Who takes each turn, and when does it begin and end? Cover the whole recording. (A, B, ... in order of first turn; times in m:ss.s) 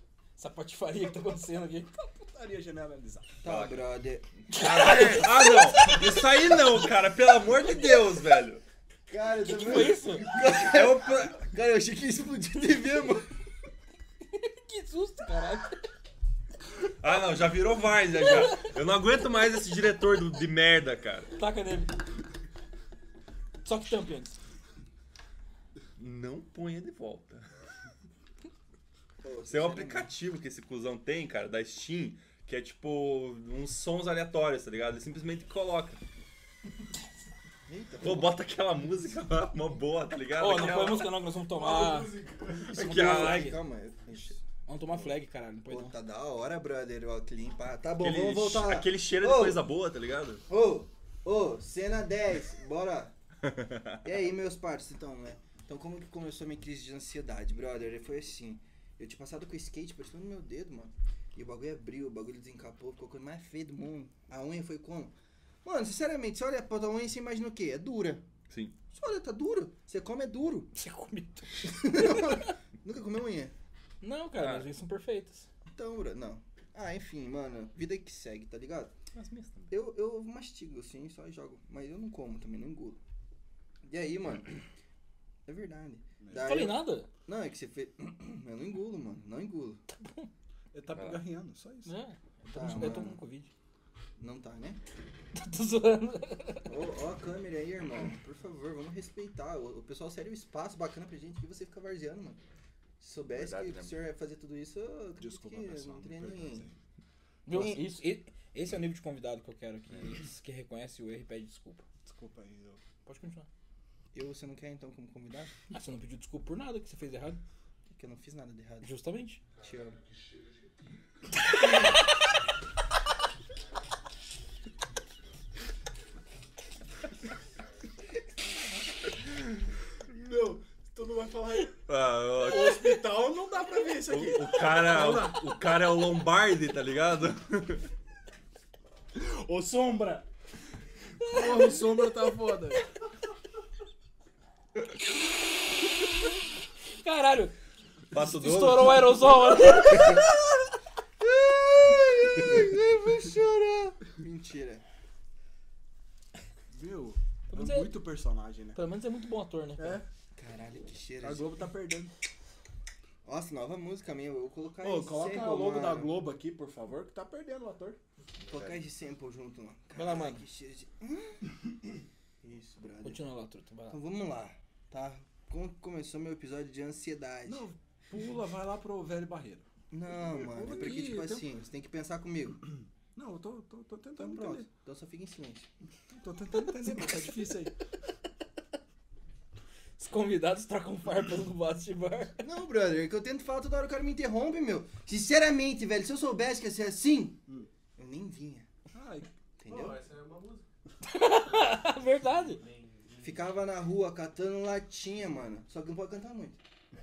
0:00.4-0:02.1 A
0:02.2-0:03.3 B
0:03.4-0:05.0 C
0:03.4-0:03.9 D
0:04.5-0:08.6 D
0:04.5-0:06.0 A
0:09.1-0:13.3 C
0:09.4-0:10.3 A
0:10.4-0:11.4 D
0:14.3-0:15.8 A
0:17.0-0:21.3 D
0:21.4-0:22.0 A
0:23.6-0:24.4 A
0:26.0-0:27.5 D
0:29.2-0:30.1 C
0:29.5-0:36.0 D
0:37.7-0:38.4 C
0:38.0-0:41.2 D
0:40.4-0:42.2 A
0:41.5-0:42.7 E
0:42.7-0:43.6 D
0:42.7-0:44.4 C
0:42.7-0:43.6 A
0:44.7-0:45.9 A
0:45.7-0:49.6 C
0:48.0-0:50.4 D
0:50.5-0:53.1 C
0:53.5-0:53.9 D
0:54.0-1:08.2 C
1:08.5-1:08.7 D
1:08.9-1:10.7 C
1:10.7-1:12.2 A
1:11.6-1:13.5 C
1:14.0-1:15.5 A
1:14.4-1:14.7 D
1:15.7-1:18.9 C
1:19.7-1:23.0 C
1:23.8-1:24.6 C
1:25.4-1:29.8 C
1:26.2-1:26.6 B
1:26.4-1:27.1 A
1:30.7-1:31.9 B
1:30.9-1:31.2 D
1:31.8-1:33.5 A
1:32.5-1:33.2 C
1:34.2-1:34.8 C
1:35.3-1:36.7 A
1:36.6-1:42.4 C
1:43.0-1:46.6 C
1:43.3-1:44.0 D
1:45.2-1:46.8 B
1:47.5-1:47.8 C
1:47.5-1:51.8 A
1:52.0-1:52.8 B
1:53.0-1:53.5 A
1:54.1-1:55.5 C
1:55.7-1:57.4 A
1:57.9-1:58.9 C
1:58.8-1:59.4 A
1:59.6-2:00.0 C
2:10.1-2:15.5 B
2:11.9-2:13.2 D
2:14.1-2:17.9 D
2:19.1-2:20.3 B
2:21.2-2:22.8 B
2:21.3-2:21.8 A
2:27.0-2:27.6 A
2:28.1-2:29.3 D
2:28.1-2:30.2 A
2:31.2-2:34.8 C
2:36.7-2:38.8 B
2:37.5-2:38.0 A
2:38.7-2:40.0 A
2:39.8-2:40.1 B
2:40.4-2:41.5 C
2:41.2-2:42.1 B
2:43.2-2:46.2 C
2:44.8-2:48.0 B
2:48.4-2:48.8 D
2:48.5-2:51.4 C
2:49.9-2:50.4 A
2:52.4-2:53.2 C
2:53.0-2:54.0 A
2:53.9-2:57.6 C
2:57.4-2:59.6 B
2:59.9-3:02.6 C
3:00.2-3:01.4 B
3:03.1-3:04.6 B
3:04.2-3:05.7 C
3:06.1-3:07.7 B
3:10.0-3:12.4 A
3:12.4-3:17.4 C
3:18.0-3:18.7 C
3:18.9-3:19.3 B
3:19.6-3:20.0 C
3:19.7-3:20.6 E
3:21.0-3:22.6 A
3:22.5-3:23.5 E
3:23.2-3:26.6 C